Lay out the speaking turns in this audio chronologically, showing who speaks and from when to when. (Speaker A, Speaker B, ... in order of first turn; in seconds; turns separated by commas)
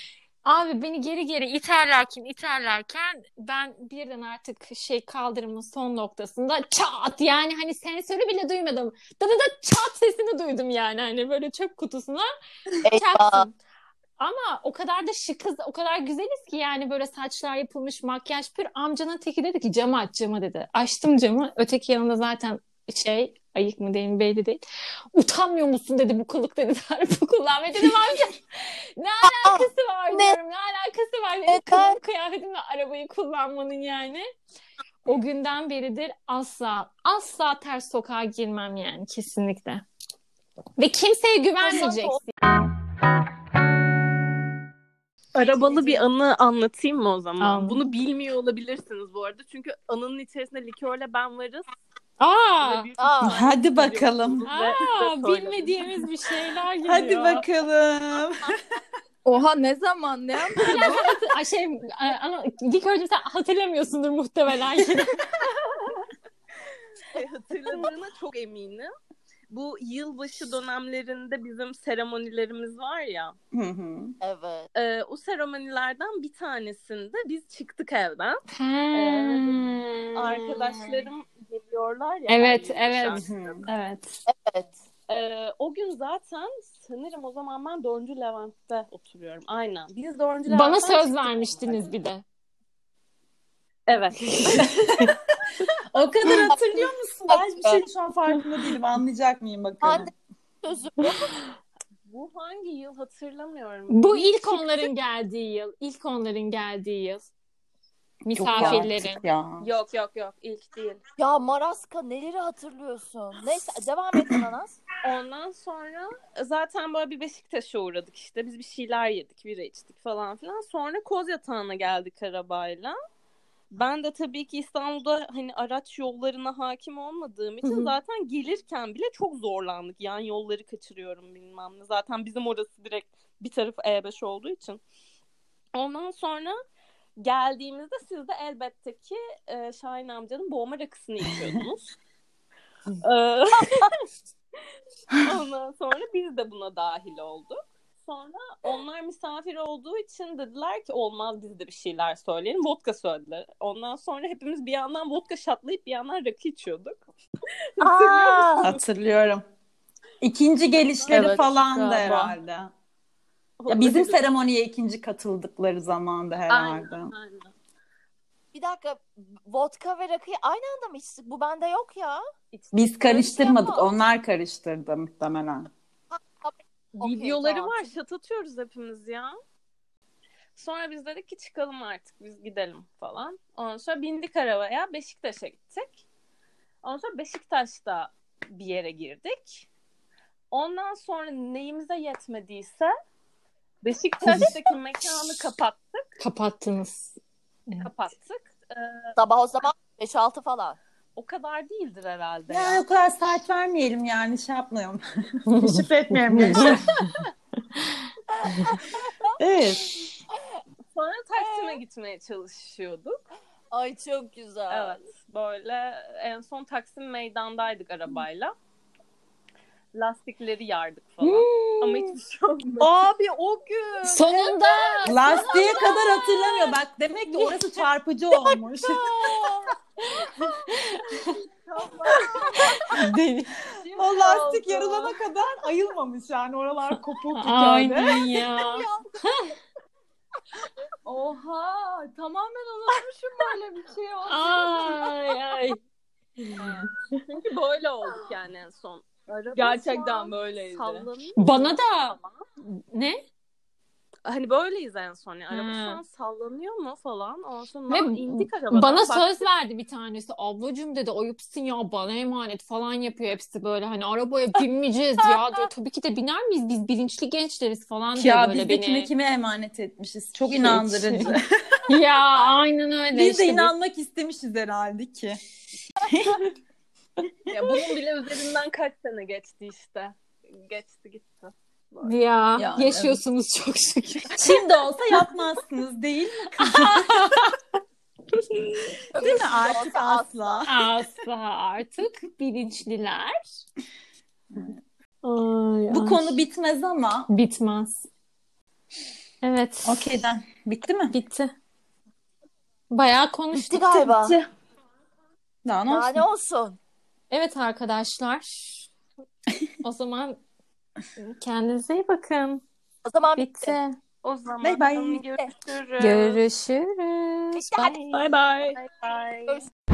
Speaker A: 0.4-12.3, Speaker B: 12.8-13.5, Speaker A: 12.9-13.5, Speaker A: 14.2-24.6, Speaker A: 25.1-34.3, Speaker B: 29.2-30.3, Speaker B: 31.5-32.0, Speaker A: 35.0-39.8, Speaker A: 40.8-42.3, Speaker C: 41.7-42.1, Speaker C: 45.3-51.6, Speaker B: 45.4-46.0, Speaker A: 47.4-47.8, Speaker A: 52.2-52.9, Speaker C: 52.6-56.0, Speaker B: 53.0-53.4, Speaker D: 53.2-54.5, Speaker A: 54.5-57.4, Speaker D: 56.8-58.6, Speaker E: 59.2-61.1, Speaker A: 60.6-65.2, Speaker C: 67.1-68.9, Speaker C: 69.5-73.3, Speaker D: 73.5-74.2, Speaker B: 74.2-74.7, Speaker C: 74.7-78.4, Speaker A: 78.5-81.1, Speaker C: 78.9-79.5, Speaker C: 80.1-83.6, Speaker A: 82.3-84.2, Speaker D: 83.2-83.6, Speaker B: 84.3-84.8, Speaker C: 85.1-91.9, Speaker A: 90.5-92.2, Speaker C: 93.9-94.7, Speaker A: 94.2-95.1, Speaker D: 94.5-95.1, Speaker D: 95.9-100.1, Speaker B: 96.4-97.8, Speaker B: 99.8-100.1, Speaker B: 100.6-101.3, Speaker C: 102.0-104.9, Speaker A: 103.9-107.3, Speaker A: 108.2-109.2, Speaker D: 108.3-109.7, Speaker C: 108.5-108.8, Speaker C: 109.6-111.0, Speaker B: 111.2-114.8, Speaker C: 115.0-123.0, Speaker C: 123.7-134.8, Speaker A: 127.6-127.9, Speaker C: 135.7-136.6, Speaker C: 137.2-141.9, Speaker C: 143.0-144.0, Speaker C: 145.2-157.0, Speaker C: 157.8-158.8, Speaker B: 157.8-158.7, Speaker D: 158.6-159.4, Speaker D: 160.2-162.7, Speaker C: 161.0-162.3, Speaker E: 161.1-162.3, Speaker C: 163.6-164.2, Speaker D: 163.7-167.1, Speaker C: 166.5-167.5, Speaker B: 168.5-172.2, Speaker C: 172.5-173.8, Speaker D: 172.7-175.7, Speaker B: 173.1-173.7, Speaker B: 176.1-177.9, Speaker C: 176.9-179.4, Speaker C: 180.6-186.0, Speaker C: 186.8-189.7, Speaker C: 190.5-192.9, Speaker C: 193.8-196.0, Speaker A: 196.2-197.2, Speaker C: 197.8-199.1, Speaker B: 199.2-200.8, Speaker C: 201.2-202.8, Speaker D: 202.5-205.0, Speaker A: 205.5-206.8, Speaker D: 205.5-206.8, Speaker B: 208.3-209.3, Speaker D: 209.4-209.9, Speaker C: 210.9-213.2, Speaker B: 211.4-211.8, Speaker B: 213.7-215.1, Speaker C: 214.7-218.5, Speaker C: 219.9-223.1, Speaker A: 221.2-222.2, Speaker E: 222.8-226.5, Speaker A: 224.1-225.2, Speaker D: 225.0-229.0, Speaker E: 229.2-229.6, Speaker A: 230.7-231.3, Speaker E: 231.6-233.0, Speaker A: 232.9-233.6, Speaker E: 233.8-235.2, Speaker D: 233.9-238.2, Speaker A: 237.3-239.5, Speaker E: 241.0-245.1, Speaker A: 244.3-245.8, Speaker A: 246.4-246.8, Speaker C: 246.6-252.4, Speaker E: 249.5-251.1, Speaker A: 251.4-252.2, Speaker A: 252.9-253.2, Speaker C: 254.2-259.4, Speaker A: 255.5-256.0, Speaker A: 257.9-269.1, Speaker D: 268.1-271.4, Speaker A: 270.5-271.3, Speaker A: 271.9-273.7, Speaker D: 273.1-275.4, Speaker D: 276.1-276.4, Speaker C: 277.5-282.1, Speaker A: 282.0-284.8, Speaker E: 282.6-283.2, Speaker D: 284.4-287.5, Speaker A: 286.6-287.5, Speaker B: 289.1-290.7, Speaker D: 289.2-290.8, Speaker A: 290.6-293.4, Speaker A: 295.2-296.4, Speaker D: 295.9-297.3, Speaker A: 297.3-298.1, Speaker A: 299.4-300.1, Speaker D: 299.8-301.1, Speaker A: 301.1-301.5, Speaker A: 302.9-303.9, Speaker B: 303.5-304.4, Speaker D: 303.9-304.4, Speaker D: 305.6-306.2, Speaker B: 305.9-306.8, Speaker A: 307.3-308.9, Speaker A: 309.8-310.4, Speaker A: 311.2-312.6, Speaker B: 313.0-313.7, Speaker A: 313.4-314.0, Speaker C: 314.2-316.4, Speaker D: 314.6-315.3, Speaker A: 316.0-318.0, Speaker B: 317.5-318.1, Speaker C: 317.8-319.6, Speaker E: 318.1-318.8